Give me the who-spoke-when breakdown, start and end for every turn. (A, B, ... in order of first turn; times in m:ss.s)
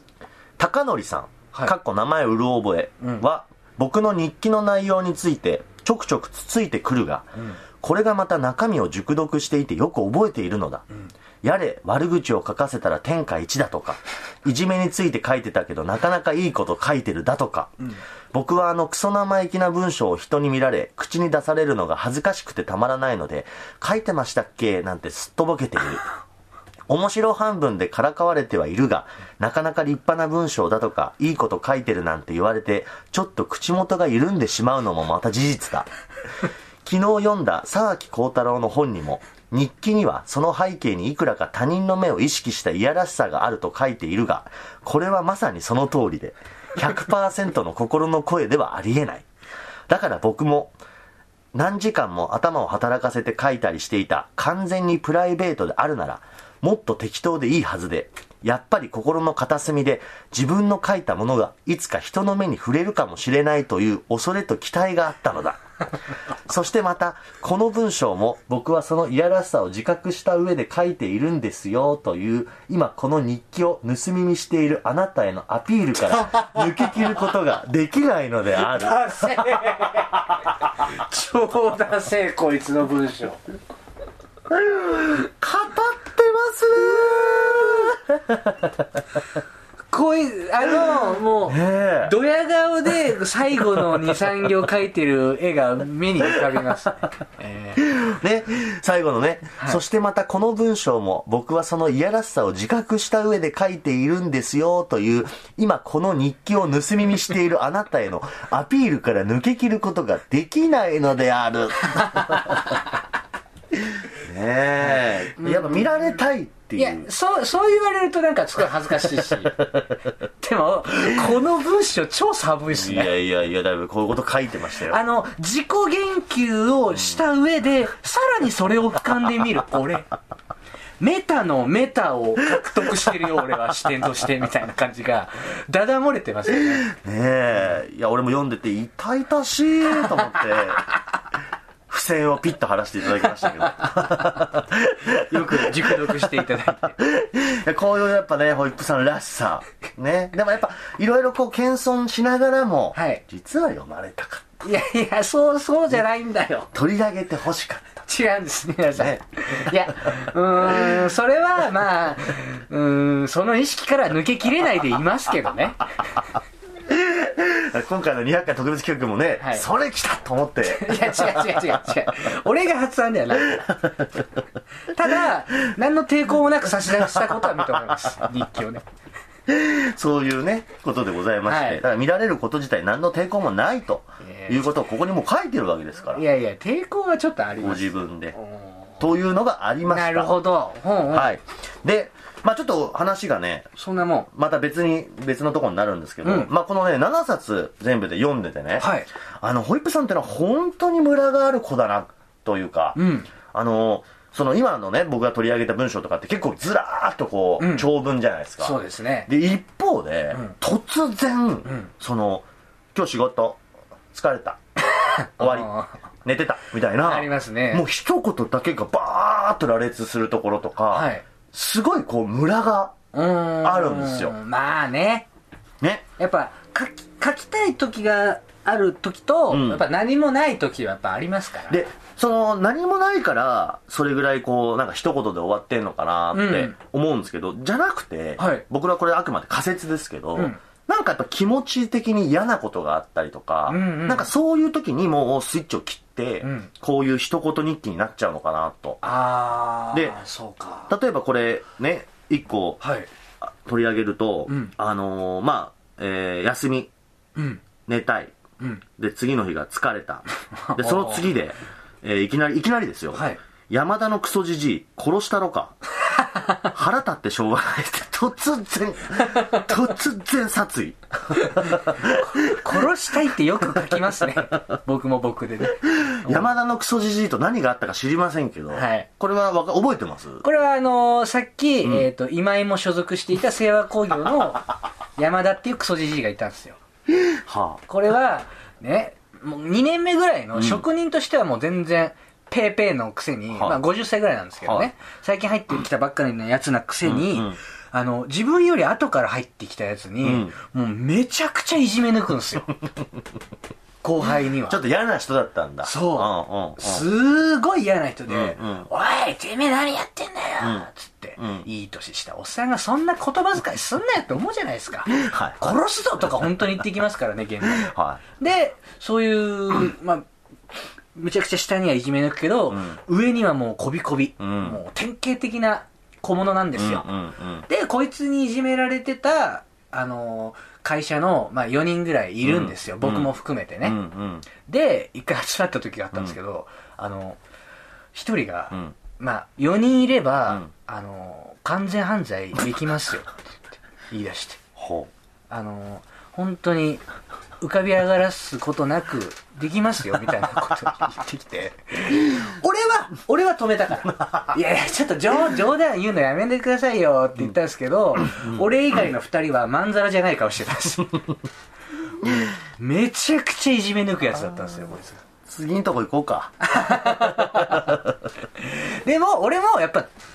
0:00.6-0:07.3 A
0:07.8-0:10.8 A
0:11.4-0:17.7 A
0:18.3-0:26.0 A
0:26.9-0:35.9 A
0:36.8-0:49.2 A
0:49.9-0:50.8 A
0:51.5-1:05.6 A
1:06.5-1:20.2 A
1:18.6-1:23.4 B
1:24.5-1:28.8 A
1:29.9-1:37.9 B
1:31.5-1:32.1 A
1:37.8-1:52.7 A
1:51.9-1:52.6 B
1:54.0-1:57.1 A
1:55.0-1:55.9 B
1:56.8-1:59.6 B
2:00.4-2:03.1 B
2:02.7-2:05.0 A
2:04.9-2:10.1 B
2:11.0-2:16.9 B
2:16.7-2:20.9 A
2:21.9-2:26.2 A
2:25.2-2:27.0 B
2:27.0-2:34.5 A
2:32.9-2:33.2 B
2:34.6-2:36.7 B
2:36.7-2:38.0 A
2:38.1-2:46.0 B
2:39.0-2:39.8 A
2:46.9-2:51.7 A
2:49.4-2:49.7 B
2:50.6-2:53.7 B
2:53.5-2:54.0 A
2:54.9-2:58.8 B
2:57.1-2:57.7 A
2:59.5-3:06.2 A
3:01.5-3:01.8 B
3:04.2-3:04.6 B
3:06.1-3:08.8 B
3:07.6-3:08.4 A
3:09.0-3:10.4 A
3:09.9-3:11.4 B
3:11.1-3:13.7 A
3:13.8-3:14.3 B
3:14.3-3:18.9 A
3:16.2-3:16.5 B
3:18.8-3:19.1 B
3:19.4-3:23.0 A
3:23.0-3:23.3 B
3:23.5-3:33.6 A
3:27.6-3:27.9 B
3:28.6-3:29.3 B
3:34.1-3:34.6 A
3:34.9-3:36.0 B
3:35.4-3:35.7 A
3:36.2-3:43.0 A
3:37.0-3:37.8 B
3:40.9-3:41.2 B
3:43.1-3:45.3 B
3:43.6-3:44.3 A
3:45.8-3:46.1 A
3:46.2-3:51.8 B
3:49.5-3:49.8 A
3:51.7-4:09.0 A
3:56.3-3:56.7 B
3:58.4-3:58.6 B
4:03.7-4:04.3 B
4:06.4-4:06.7 B
4:09.0-4:10.9 B
4:09.9-4:10.2 A
4:10.9-4:12.8 A
4:12.8-4:13.1 B
4:13.4-4:16.9 A
4:14.5-4:14.7 B
4:17.4-4:17.6 B
4:17.8-4:18.3 A
4:19.0-4:25.8 A
4:20.6-4:21.2 B
4:23.1-4:23.4 B
4:26.6-4:32.7 A
4:31.4-4:36.5 B
4:36.1-4:40.4 A
4:38.7-4:39.1 B
4:40.4-4:44.7 B
4:45.2-4:46.8 B
4:47.2-4:47.8 A
4:47.9-5:02.7 B
4:50.6-4:50.8 A
4:53.5-4:53.8 A
4:54.6-4:54.9 A
4:57.0-4:57.6 A
5:00.2-5:00.6 A
5:04.0-5:04.8 B
5:04.7-5:07.0 A
5:05.8-5:20.3 B
5:08.3-5:08.9 A
5:10.6-5:10.9 A
5:11.4-5:11.7 A
5:15.1-5:15.8 A
5:17.6-5:18.2 A
5:21.2-5:27.1 B
5:22.7-5:23.0 A
5:24.4-5:24.8 A
5:26.8-5:27.7 A
5:27.7-5:34.0 B
5:32.4-5:34.5 A
5:34.5-5:37.4 B
5:38.1-5:44.6 B
5:44.8-5:45.1 A
5:45.5-5:47.0 B
5:47.6-6:01.2 B
5:58.3-5:58.7 A
6:02.8-6:05.2 B
6:05.5-6:08.0 A
6:06.6-6:08.0 B
6:08.6-6:10.1 B